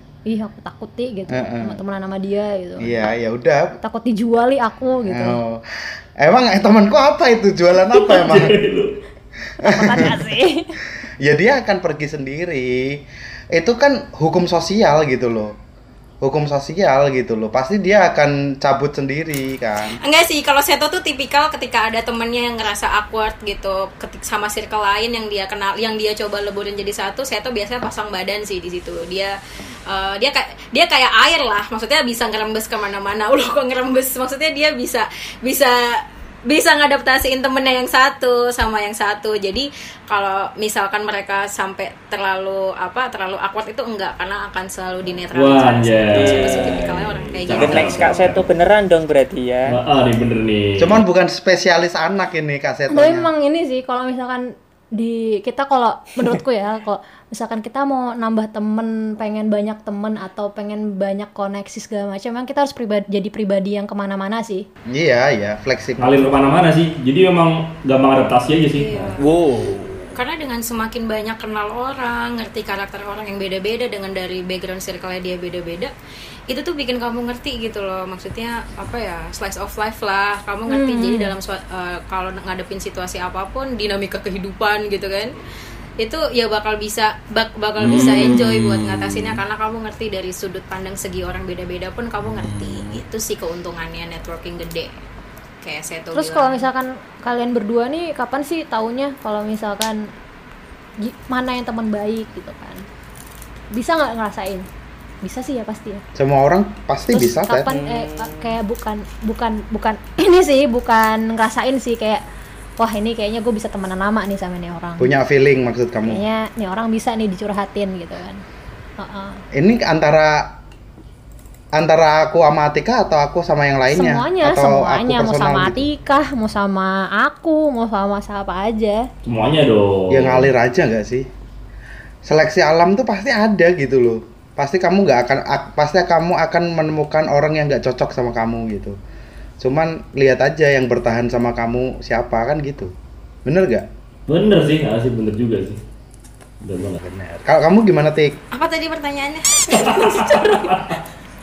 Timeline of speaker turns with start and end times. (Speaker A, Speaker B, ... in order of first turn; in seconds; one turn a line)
Speaker A: 0.2-3.0
Speaker B: 1.3-1.8
Speaker B: 2.8-3.8
Speaker A: 3.8-5.4
Speaker B: 5.0-5.6
Speaker B: 6.2-8.6
Speaker C: 7.9-9.0
Speaker A: 9.6-10.7
Speaker B: 9.6-10.2
Speaker B: 11.2-15.6
Speaker B: 16.2-20.0
Speaker D: 20.0-29.3
Speaker D: 29.9-48.1
Speaker C: 45.3-48.5
Speaker E: 46.1-46.7
Speaker E: 47.5-49.8
Speaker C: 49.7-51.0
Speaker B: 50.8-53.3
Speaker A: 52.9-64.7
Speaker B: 64.9-66.3
Speaker C: 66.0-69.2
Speaker D: 68.7-69.3
Speaker F: 69.2-70.2
Speaker D: 70.1-75.9
Speaker D: 76.5-85.3
Speaker A: 80.7-81.3
Speaker D: 86.0-94.9
Speaker F: 87.8-89.4
Speaker F: 92.2-93.0
Speaker D: 95.6-96.6
Speaker A: 96.1-100.0
Speaker A: 101.0-102.8
Speaker A: 103.7-104.7
Speaker A: 105.2-106.0
Speaker B: 106.1-107.7
Speaker A: 107.1-112.2
Speaker E: 107.7-108.6
Speaker A: 112.8-115.1
Speaker B: 115.0-116.2
Speaker A: 116.0-118.4
Speaker A: 119.0-119.4
Speaker B: 119.5-120.6
Speaker B: 121.7-125.8
Speaker A: 123.9-129.1
Speaker C: 129.2-130.5
Speaker B: 130.1-131.3
Speaker B: 132.2-138.9
Speaker B: 139.6-142.9
Speaker B: 143.4-143.9
Speaker C: 144.3-145.8
Speaker C: 146.6-147.0
Speaker B: 146.9-148.4
Speaker D: 148.5-150.7
Speaker C: 149.7-151.0